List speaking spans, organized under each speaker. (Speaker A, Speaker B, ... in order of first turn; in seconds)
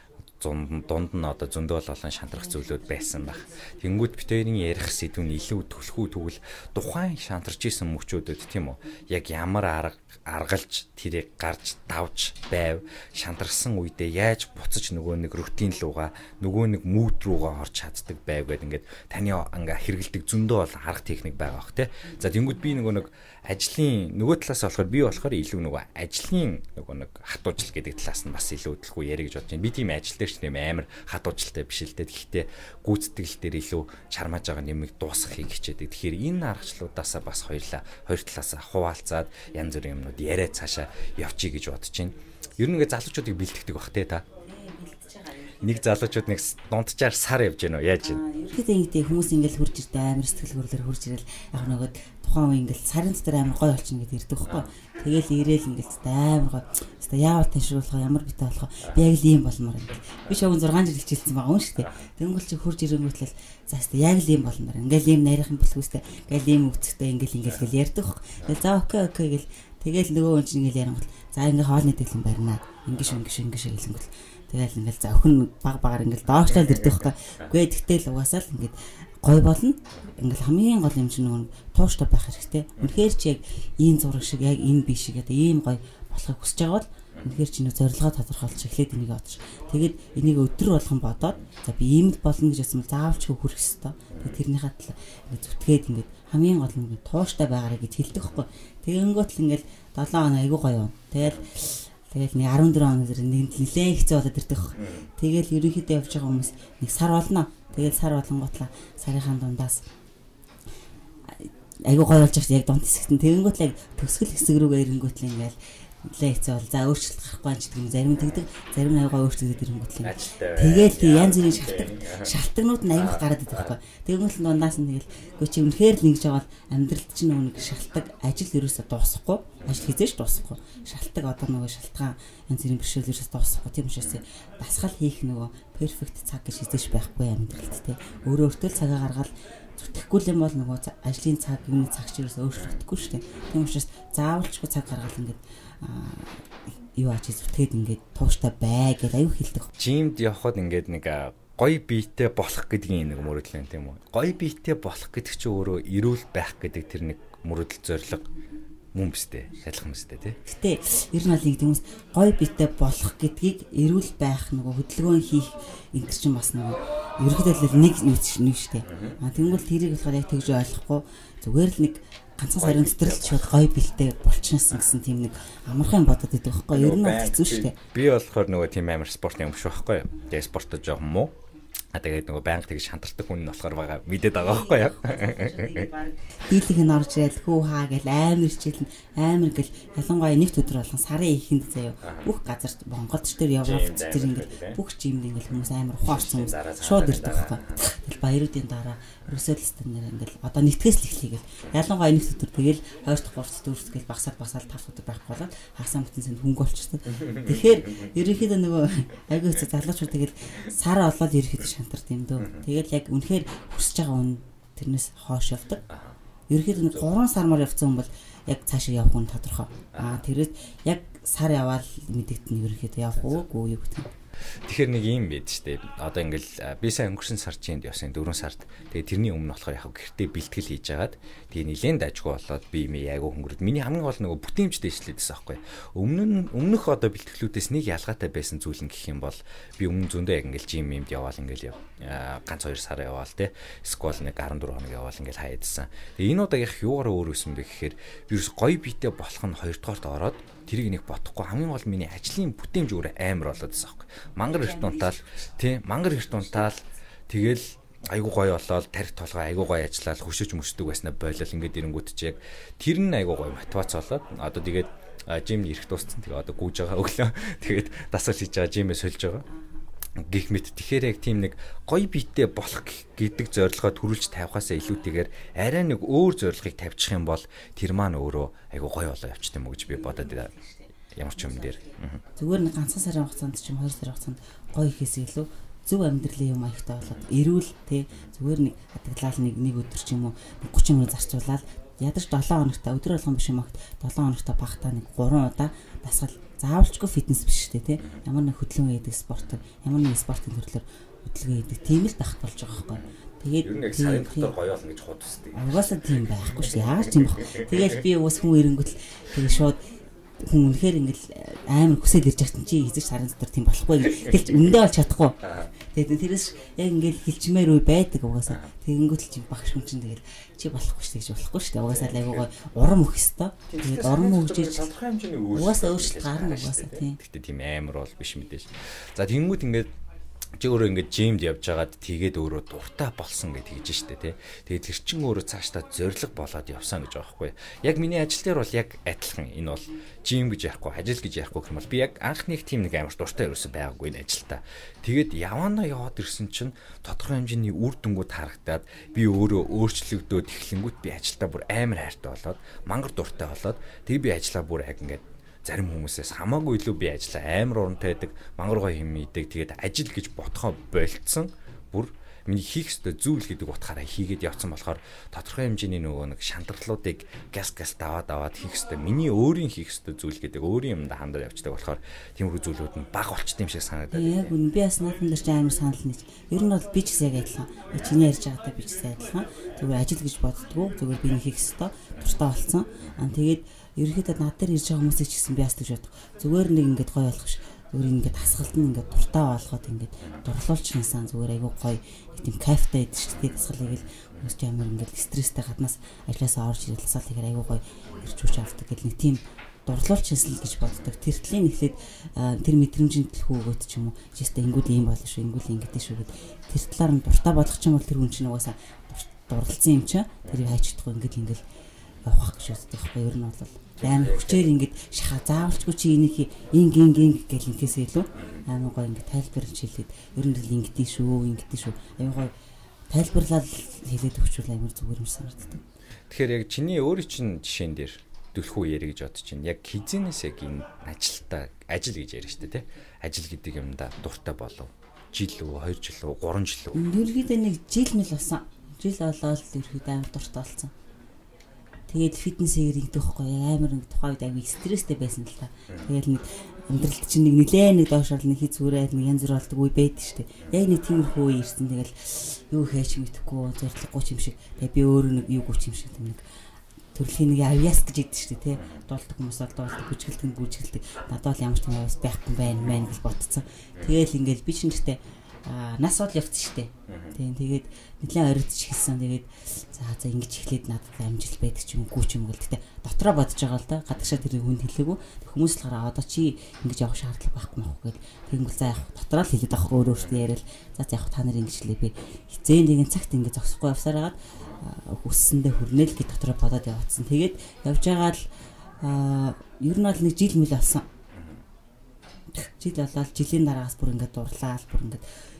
Speaker A: 0.4-44.2, 45.6-48.2, 76.5-77.5, 94.1-94.4, 101.2-101.5, 104.8-105.1, 120.0-122.3, 122.9-123.7, 149.8-158.3, 158.9-160.4, 168.8-169.2, 172.5-173.6, 176.7-181.3, 181.9-185.9, 192.0-192.3, 193.6-194.8, 196.1-197.8, 207.2-208.1, 212.4-212.7, 215.9-216.2, 219.9-220.2, 224.6-269.5, 270.1-280.5, 281.1-282.2, 303.6-307.9, 315.4-315.7, 321.9-322.4, 323.7-329.9, 330.6-374.5, 410.4-410.7, 414.0-414.7, 426.3-437.0, 458.8-459.0, 467.1-467.4, 480.2-480.4, 491.3-491.6
Speaker B: 2.6-3.4, 22.1-22.9, 44.4-46.1, 48.0-109.8, 111.3-146.4, 146.9-149.7, 160.4-177.8, 184.4-215.8, 216.5-224.1, 254.5-255.5, 256.1-256.7, 279.9-304.5, 305.5-309.8, 310.4-324.9, 325.5-327.2, 374.1-411.6, 412.2-422.5, 423.1-425.8, 436.9-440.9, 442.1-456.4, 457.1-488.4, 489.0-491.1, 492.5-495.2